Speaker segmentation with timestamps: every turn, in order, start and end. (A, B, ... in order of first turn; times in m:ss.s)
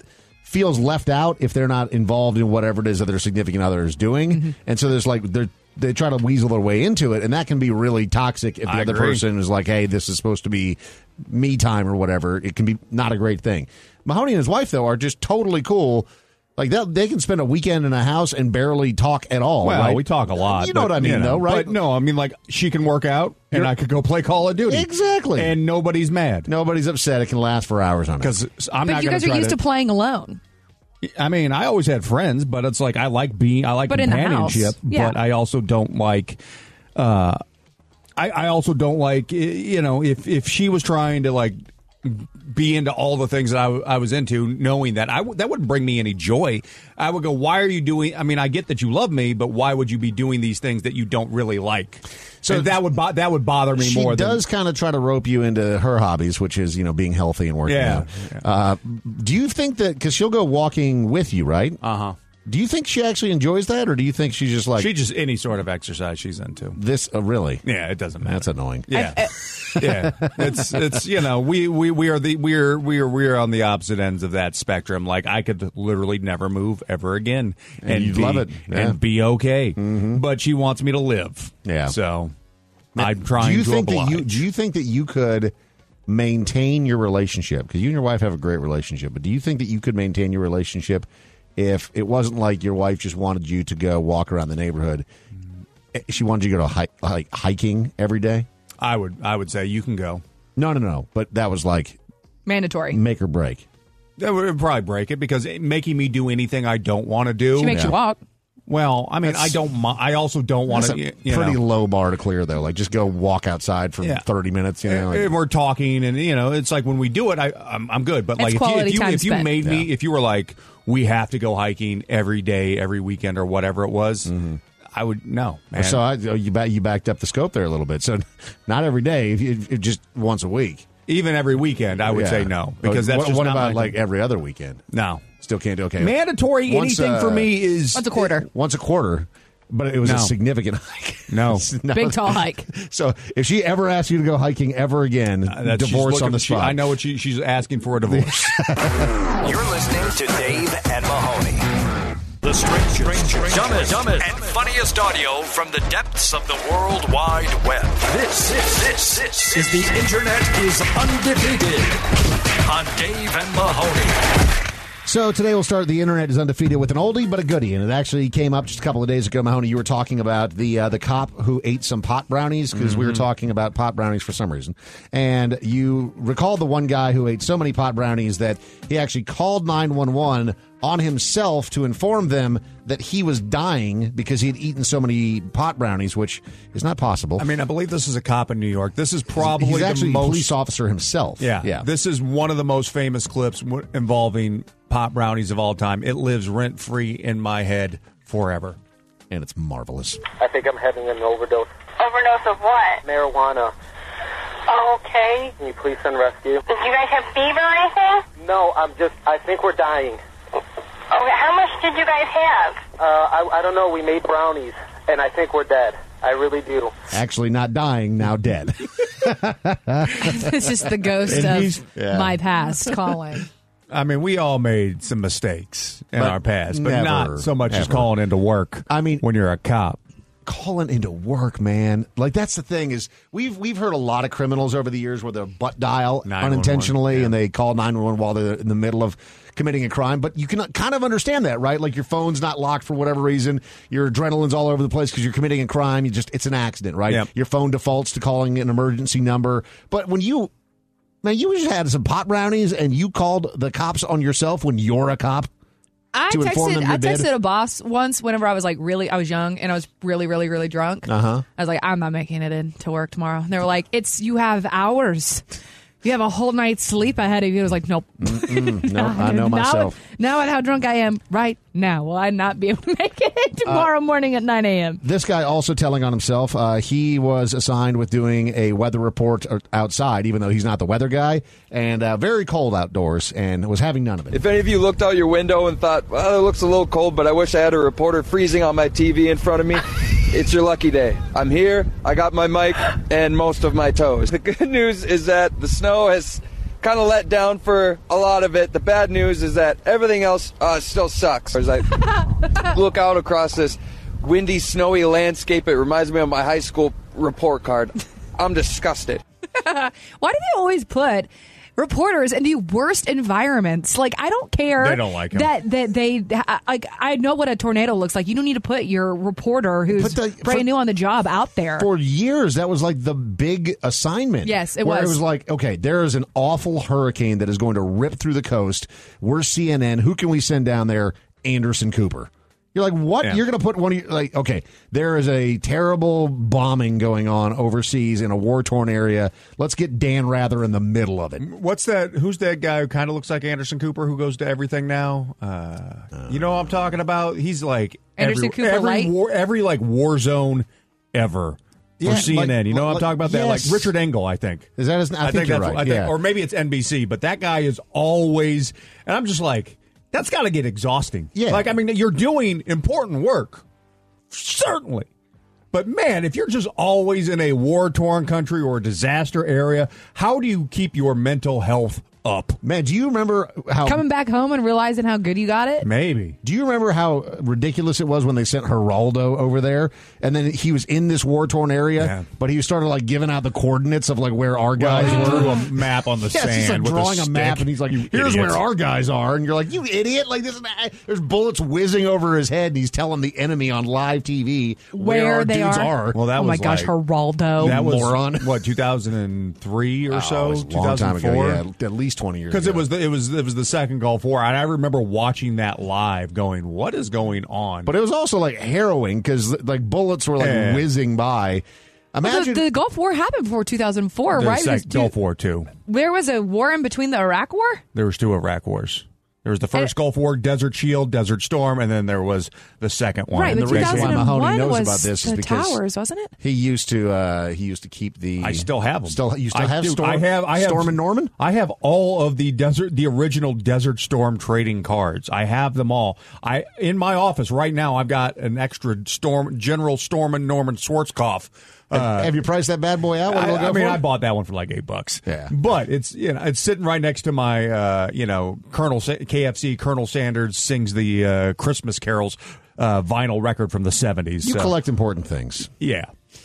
0:00.4-0:21.8 A
0:08.7-0:09.2 B
0:19.6-0:26.5 B
0:24.7-0:25.5 A
0:26.4-0:28.4 A
0:28.2-0:29.6 B
0:28.8-0:30.4 C
0:31.0-0:36.4 B
0:33.9-0:35.1 C
0:37.0-0:37.4 B
0:38.2-0:54.4 B
0:52.4-0:52.7 A
0:53.8-1:01.8 A
0:57.7-0:58.4 B
1:01.8-1:02.2 B
1:02.4-1:04.9 A
1:04.8-1:06.8 B
1:06.8-1:07.6 A
1:07.6-1:09.2 B
1:08.2-1:09.0 A
1:08.9-1:09.3 C
1:09.7-1:22.3 B
1:09.8-1:10.6 A
1:17.8-1:19.0 A
1:19.8-1:20.2 A
1:21.6-1:21.9 A
1:23.0-1:25.5 A
1:23.0-1:24.3 B
1:26.1-1:35.0 A
1:35.9-1:38.5 A
1:38.8-1:40.2 B
1:40.6-1:42.0 A
1:42.4-1:43.0 C
1:42.9-1:43.6 A
1:44.2-1:47.9 B
1:47.6-1:48.2 C
1:47.7-1:47.9 A
1:48.7-1:51.6 B
1:49.2-1:49.6 A
1:50.7-1:55.3 A
1:54.9-2:04.3 B
1:58.4-1:59.5 C
1:59.6-1:59.9 A
2:04.2-2:04.6 A
2:04.9-2:06.0 B
2:05.8-2:10.9 A
2:11.1-2:14.0 B
2:12.0-2:14.8 A
2:14.9-2:15.3 B
2:15.4-2:17.5 A
2:16.0-2:18.1 B
2:17.9-2:18.4 C
2:18.2-2:26.8 A
2:20.0-2:20.4 B
2:21.3-2:21.7 B
2:21.9-2:22.6 C
2:25.5-2:28.5 B
2:28.0-2:29.1 A
2:29.4-2:31.6 D
2:32.4-2:42.0 D
2:33.4-2:34.5 B
2:42.6-2:44.2 D
2:45.0-3:07.5 A
2:52.7-2:53.2 B
3:07.4-3:10.5 B
3:09.3-3:11.8 A
3:11.4-3:18.8 B
3:19.3-3:20.2 A
3:20.4-3:21.7 E
3:22.0-3:23.0 F
3:23.0-3:23.7 E
3:24.7-3:25.1 F
3:25.1-3:26.6 E
3:26.7-3:28.2 F
3:28.4-3:30.2 E
3:31.1-3:32.8 F
3:32.9-3:36.9 E
3:37.1-3:40.5 A
3:40.2-3:43.5 C
3:41.3-3:41.9 B
3:41.9-3:42.9 A
3:43.9-3:50.0 B
3:46.2-3:48.1 A
3:48.9-3:49.2 A
3:50.4-4:10.5 A
3:56.2-3:57.3 B
4:11.2-4:15.5 A
4:16.1-4:25.4 C
4:16.3-4:17.3 A
4:21.0-4:21.4 A
4:26.0-4:35.0 C
4:28.2-4:30.0 A
4:33.6-4:33.9 A
4:35.0-4:44.4 A
4:44.3-5:02.0 G
5:02.6-5:09.2 G
5:09.6-5:21.9 C
5:14.8-5:15.5 B
5:19.9-5:20.7 A
5:21.8-5:41.4 A
5:24.4-5:25.2 C
5:41.4-5:54.7 B
5:46.1-5:46.9 A
5:48.2-5:49.1 C
5:52.0-5:53.9 A
5:54.8-5:56.1 A
5:55.2-6:03.6 B
6:01.4-6:01.7 A
6:04.3-6:05.1 B
6:05.7-6:12.6 B
6:12.6-6:14.0 A
6:13.8-6:15.9 C
6:15.8-6:16.4 B
6:16.4-6:25.6 A
6:22.0-6:22.3 B
6:24.8-6:28.6 B
6:26.2-6:36.2 A
6:34.9-6:37.8 C
6:36.1-6:36.9 B
6:37.6-6:41.6 B
6:37.6-6:38.6 A
6:40.1-6:42.8 A
6:42.5-6:47.9 B
6:47.9-6:52.6 A
6:50.4-6:50.9 B
6:52.2-6:55.1 C
6:54.3-6:55.7 B
6:55.9-6:57.8 C
6:57.9-7:04.3 B
7:03.3-7:06.3 C
7:03.4-7:05.8 A
7:06.4-7:11.3 A
7:08.4-7:22.3 B
7:21.9-7:24.0 A
7:23.3-7:34.7 B
7:25.2-7:25.5 A
7:34.4-7:35.7 A
7:35.8-7:36.1 B